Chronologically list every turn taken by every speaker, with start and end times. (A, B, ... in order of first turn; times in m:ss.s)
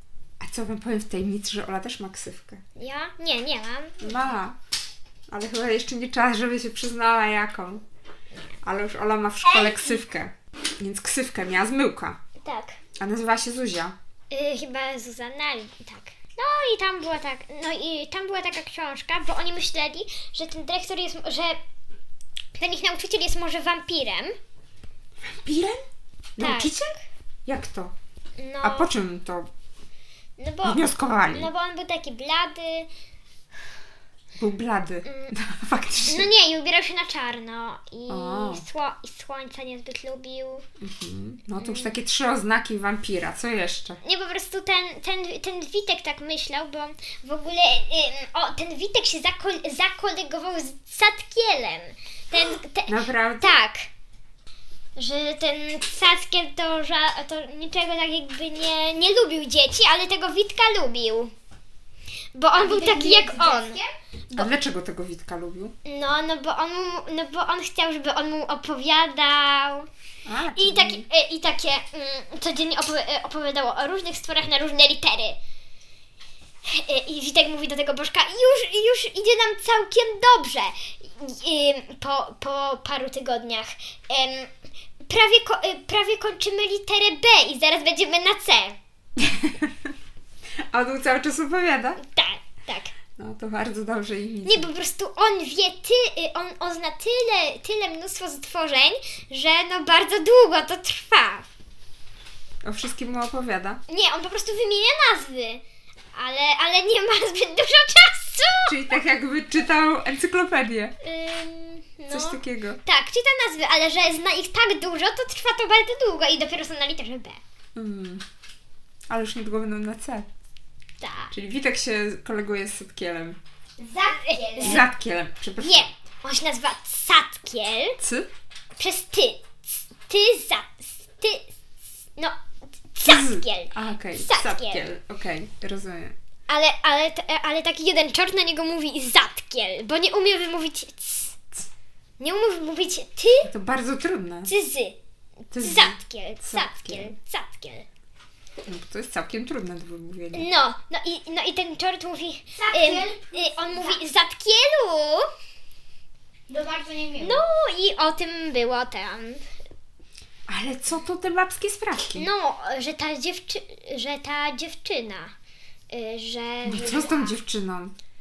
0:00.4-0:02.6 A
0:02.8-0:04.2 B
0:04.0-0:04.6 A
0:05.3-0:07.8 A
0:08.6-0:12.2 A
0:09.4-0:10.0 B
0:12.4-0:12.8 B
0:13.0-0:13.9 A
0:14.3-0:21.6 B
0:22.6-0:24.4 B
0:25.2-0:25.8 A
0:26.4-0:26.9 A
0:26.4-0:26.8 B
0:27.4-0:27.9 A
0:28.4-0:28.9 B
0:28.6-0:29.5 A
0:30.4-0:32.9 B
0:30.6-0:31.5 A
0:34.4-0:36.3 A
0:35.0-0:35.3 B
0:36.0-0:40.6 B
0:38.1-0:38.6 A
0:40.8-0:44.0 A
0:41.6-0:41.9 B
0:44.0-0:53.9 B
0:52.9-0:53.5 A
0:55.0-1:01.3 B
1:02.3-1:03.8 B
1:02.6-1:03.9 C
1:04.3-1:05.7 A
1:05.8-1:09.9 B
1:10.2-1:11.0 A
1:10.6-1:15.4 B
1:16.6-1:28.8 B
1:29.2-1:29.7 A
1:30.7-1:32.0 A
1:32.0-1:32.9 B
1:33.2-1:34.7 A
1:34.4-1:41.5 B
1:42.6-1:43.8 A
1:43.9-1:45.6 B
1:46.1-1:48.8 B
1:48.7-1:50.9 A
1:51.0-1:57.4 B
1:52.1-1:52.8 A
1:57.8-1:58.2 A
1:59.1-2:00.3 A
2:01.0-2:01.3 B
2:01.3-2:03.4 A
2:03.8-2:04.9 C
2:04.1-2:04.9 B
2:04.6-2:05.9 A
2:05.6-2:08.0 B
2:08.0-2:08.3 A
2:08.8-2:11.5 B
2:12.9-2:14.8 B
2:13.0-2:16.1 A
2:16.5-2:21.4 B
2:22.2-2:23.5 B
2:23.4-2:24.5 A
2:24.5-2:25.0 B
2:25.5-2:27.1 A
2:25.6-2:27.8 B
2:28.6-2:30.5 A
2:30.3-2:35.3 B
2:32.5-2:34.0 C
2:36.5-2:37.4 C
2:37.2-2:39.4 B
2:40.5-2:42.3 A
2:42.2-2:45.3 B
2:45.9-2:47.4 B
2:46.6-2:47.9 A